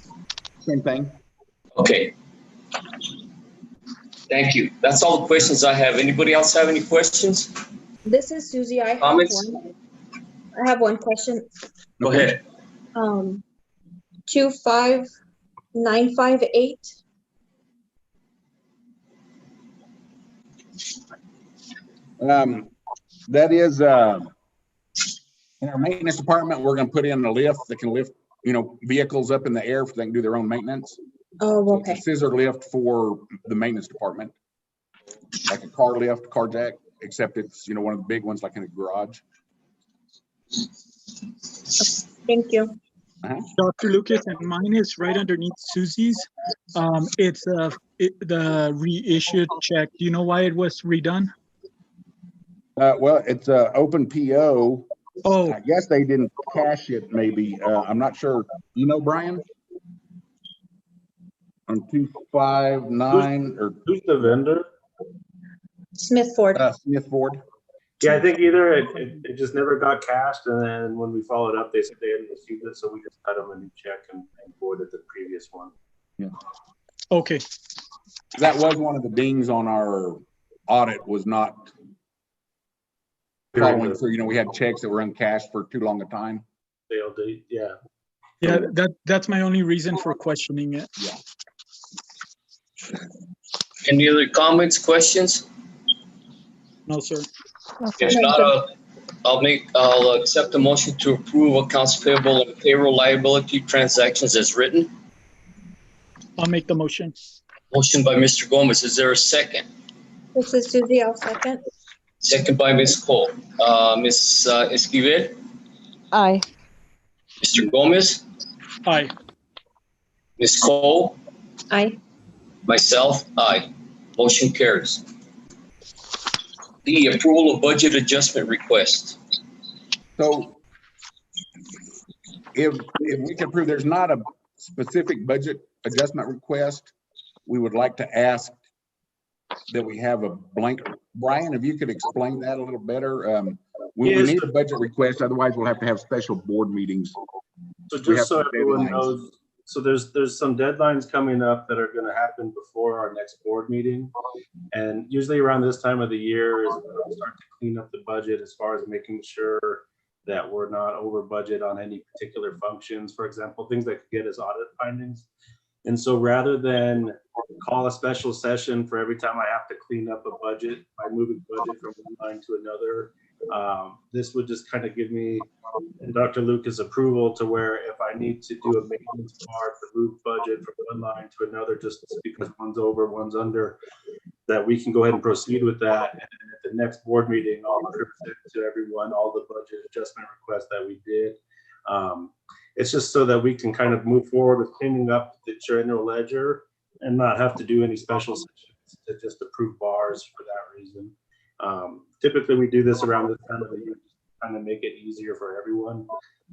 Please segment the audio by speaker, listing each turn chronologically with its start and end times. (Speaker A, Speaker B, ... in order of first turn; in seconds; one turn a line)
Speaker A: 0.6-1.1
Speaker B: 1.8-2.1
Speaker B: 4.3-7.5
Speaker C: 8.1-9.6
Speaker B: 9.0-9.4
Speaker C: 10.6-11.4
Speaker B: 12.0-12.4
Speaker A: 12.0-12.3
Speaker C: 12.9-13.4
Speaker C: 14.3-15.1
Speaker C: 15.7-16.9
Speaker A: 22.2-22.7
Speaker A: 23.3-24.3
Speaker A: 25.6-31.0
Speaker C: 31.4-32.0
Speaker A: 31.7-34.3
Speaker A: 35.5-39.2
Speaker C: 41.8-42.8
Speaker D: 43.6-51.3
Speaker A: 52.8-54.9
Speaker D: 55.2-55.6
Speaker A: 55.5-59.4
Speaker A: 61.7-63.8
Speaker E: 63.1-64.6
Speaker C: 66.0-66.6
Speaker A: 66.5-67.4
Speaker E: 68.0-75.7
Speaker D: 77.1-77.4
Speaker A: 78.3-81.7
Speaker E: 83.5-84.0
Speaker A: 83.5-86.4
Speaker E: 86.9-87.7
Speaker D: 88.4-90.9
Speaker B: 93.8-95.4
Speaker D: 96.9-97.3
Speaker B: 98.0-98.7
Speaker B: 99.2-104.9
Speaker D: 106.4-107.2
Speaker B: 107.7-109.7
Speaker C: 110.3-111.6
Speaker B: 112.2-115.4
Speaker B: 117.4-118.2
Speaker D: 118.8-119.1
Speaker B: 120.4-121.2
Speaker C: 121.7-122.0
Speaker B: 122.7-125.0
Speaker B: 126.8-129.2
Speaker A: 130.2-130.6
Speaker A: 132.5-136.9
Speaker A: 137.4-138.6
Speaker A: 139.7-147.2
Speaker E: 144.0-144.5
Speaker E: 147.9-154.1
Speaker A: 148.0-149.1
Speaker E: 154.7-165.3
Speaker E: 165.8-175.5
Speaker E: 176.0-183.8
Speaker E: 184.5-206.1